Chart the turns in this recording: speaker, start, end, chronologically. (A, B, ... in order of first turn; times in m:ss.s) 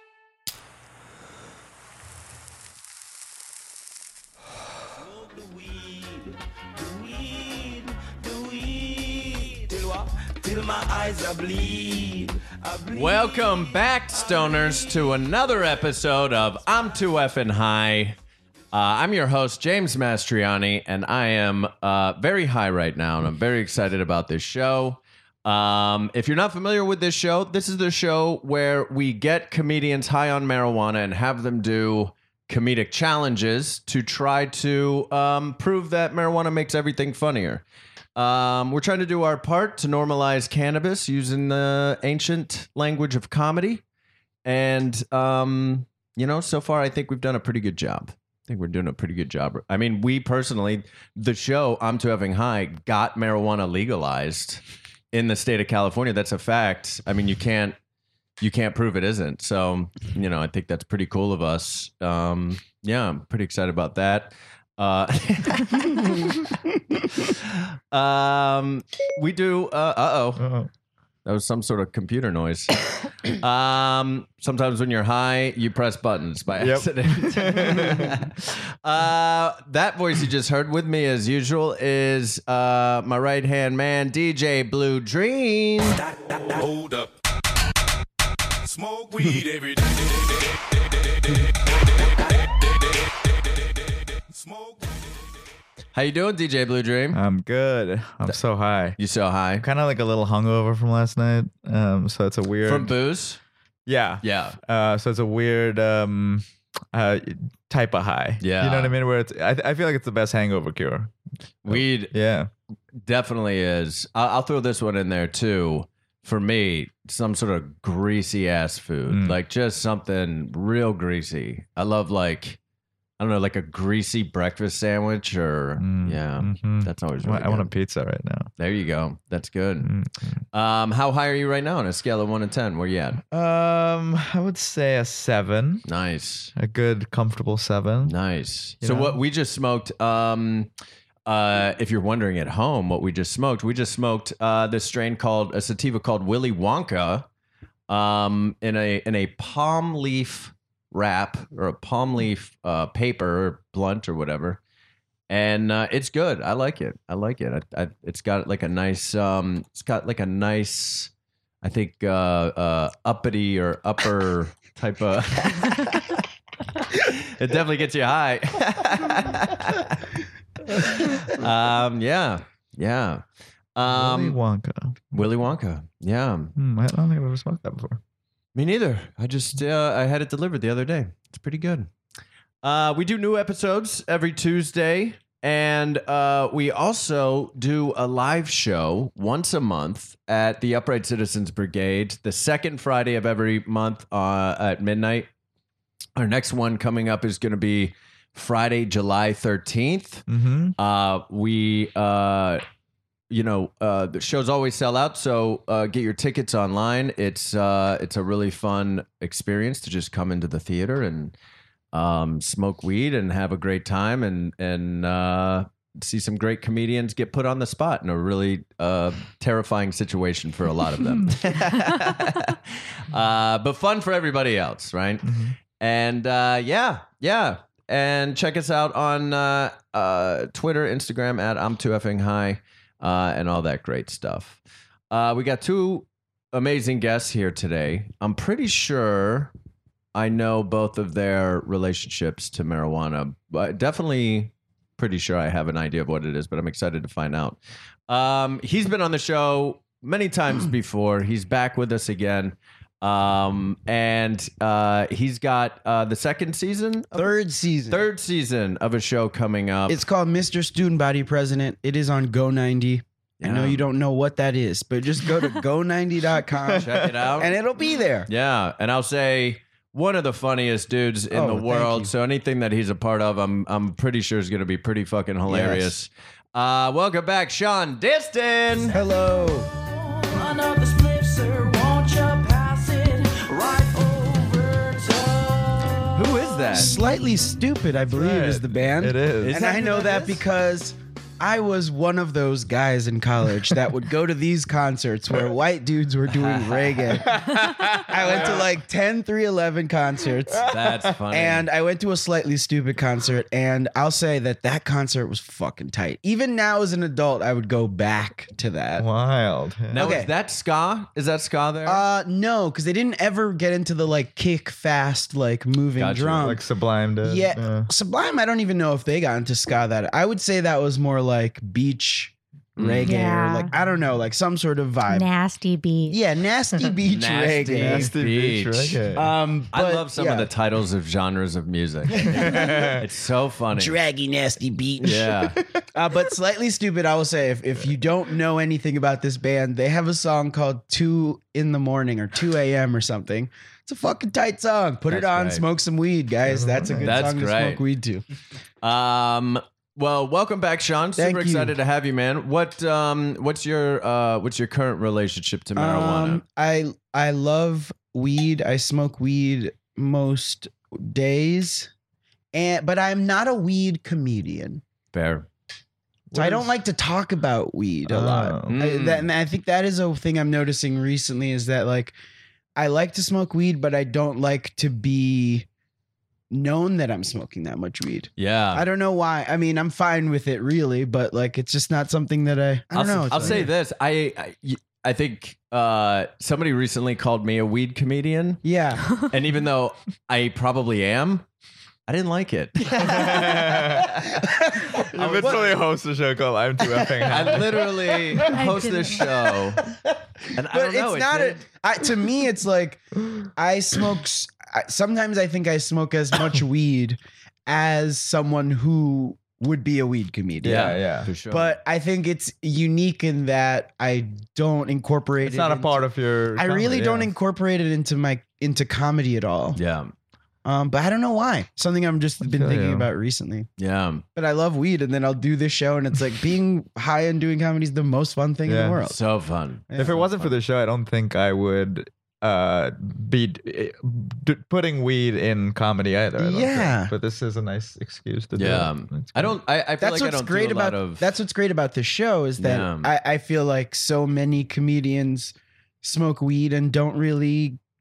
0:12.9-0:18.2 A
0:18.7-0:37.6 A
0:38.2-0:43.8 A
0:44.4-0:57.8 A
0:58.4-1:06.4 A
1:07.2-1:10.4 A
1:10.4-1:10.7 B
1:11.2-1:26.0 A
1:16.6-1:18.2 B
1:26.3-1:27.1 C
1:28.6-1:31.5 C
1:32.0-1:35.2 C
1:35.9-1:37.2 A
1:37.1-1:39.0 B
1:39.0-1:39.7 A
1:39.6-1:42.9 B
1:42.6-1:43.4 A
1:43.9-1:51.1 B
1:44.2-1:44.6 A
1:48.4-1:49.0 A
1:51.6-1:52.1 A
1:51.7-1:52.5 B
1:53.0-2:02.6 A
1:59.1-1:59.4 B
2:03.2-2:07.7 A
2:05.8-2:08.5 B
2:08.6-2:09.9 A
2:09.8-2:10.4 B
2:10.5-2:13.2 A
2:13.3-2:15.9 B
2:15.9-2:16.5 A
2:16.6-2:18.2 B
2:18.0-2:20.7 A
2:18.8-2:19.2 B
2:21.3-2:27.3 A
2:27.9-2:34.6 A
2:35.3-2:41.1 A
2:41.6-2:46.2 A
2:46.9-2:50.0 A
2:50.7-2:53.2 A
2:53.8-2:54.4 A
2:53.8-2:55.3 B
2:55.1-2:56.5 A
2:56.6-2:58.0 B
2:58.6-3:01.9 A
3:02.6-3:15.3 A
3:16.2-3:20.3 A
3:20.3-3:20.8 B
3:20.8-3:22.6 A
3:23.3-3:31.3 A
3:31.9-3:54.6 A
3:45.2-3:45.6 B
3:55.1-3:59.5 A
4:00.1-4:07.6 A
4:08.1-4:17.4 A
4:17.2-4:18.0 D
4:17.9-4:20.0 A
4:19.9-4:28.3 D
4:23.4-4:23.9 A
4:26.7-4:27.6 A
4:28.3-4:39.0 A
4:31.3-4:32.1 D
4:35.5-4:35.9 D
4:38.9-4:39.7 D
4:39.8-4:46.4 E
4:46.2-4:47.0 A
4:46.7-5:00.7 D
4:48.1-4:49.7 B
4:49.4-4:50.4 A
4:56.3-4:57.3 A
4:57.7-4:58.6 B
4:58.1-4:58.6 A
5:00.5-5:01.1 B
5:00.7-5:01.7 A
5:01.3-5:09.1 D
5:09.0-5:10.1 B
5:09.9-5:12.0 A
5:10.0-5:10.3 D
5:11.8-5:16.6 D
5:16.0-5:16.4 A
5:16.4-5:17.9 B
5:17.2-5:25.3 D
5:22.8-5:23.1 A
5:23.0-5:23.7 F
5:25.1-5:26.2 F
5:26.1-5:28.1 D
5:27.1-5:29.0 A
5:27.8-5:29.3 B
5:29.2-5:30.5 D
5:29.7-5:34.0 A
5:32.2-5:33.0 D
5:32.3-5:33.0 B
5:33.7-5:48.2 D
5:35.0-5:35.6 A
5:45.1-5:45.6 A
5:46.4-5:47.3 B
5:47.0-5:47.8 A
5:48.8-5:56.4 A
5:51.2-5:51.8 D
5:55.8-6:01.9 D
6:02.5-6:04.8 D
6:05.1-6:05.5 A
6:06.3-6:06.7 B
6:06.4-6:12.1 D
6:08.1-6:08.7 B
6:08.7-6:09.3 A
6:12.8-6:15.7 D
6:16.5-6:23.7 D
6:18.4-6:18.8 A
6:22.9-6:28.6 A
6:23.3-6:23.7 B
6:28.6-6:29.2 D
6:29.3-6:31.5 A
6:32.1-6:34.1 A
6:33.0-6:34.4 B
6:34.4-6:35.8 D
6:34.9-6:38.5 B
6:35.0-6:35.8 A
6:36.8-6:37.8 D
6:37.3-6:39.8 A
6:38.5-6:39.3 F
6:40.5-6:41.6 A
6:40.7-6:51.0 D
6:50.6-6:51.8 A
6:50.6-6:51.3 B
6:51.5-6:56.0 D
6:55.4-6:57.3 B
6:56.6-6:59.8 D
6:59.8-7:00.1 A
7:00.6-7:03.7 D
7:02.4-7:03.1 B
7:03.8-7:04.2 A
7:04.4-7:09.2 D
7:08.6-7:09.0 B
7:09.1-7:10.2 A
7:09.9-7:10.5 D
7:10.0-7:19.6 B
7:16.4-7:17.1 D
7:18.6-7:21.4 A
7:20.0-7:27.8 D
7:22.6-7:23.1 A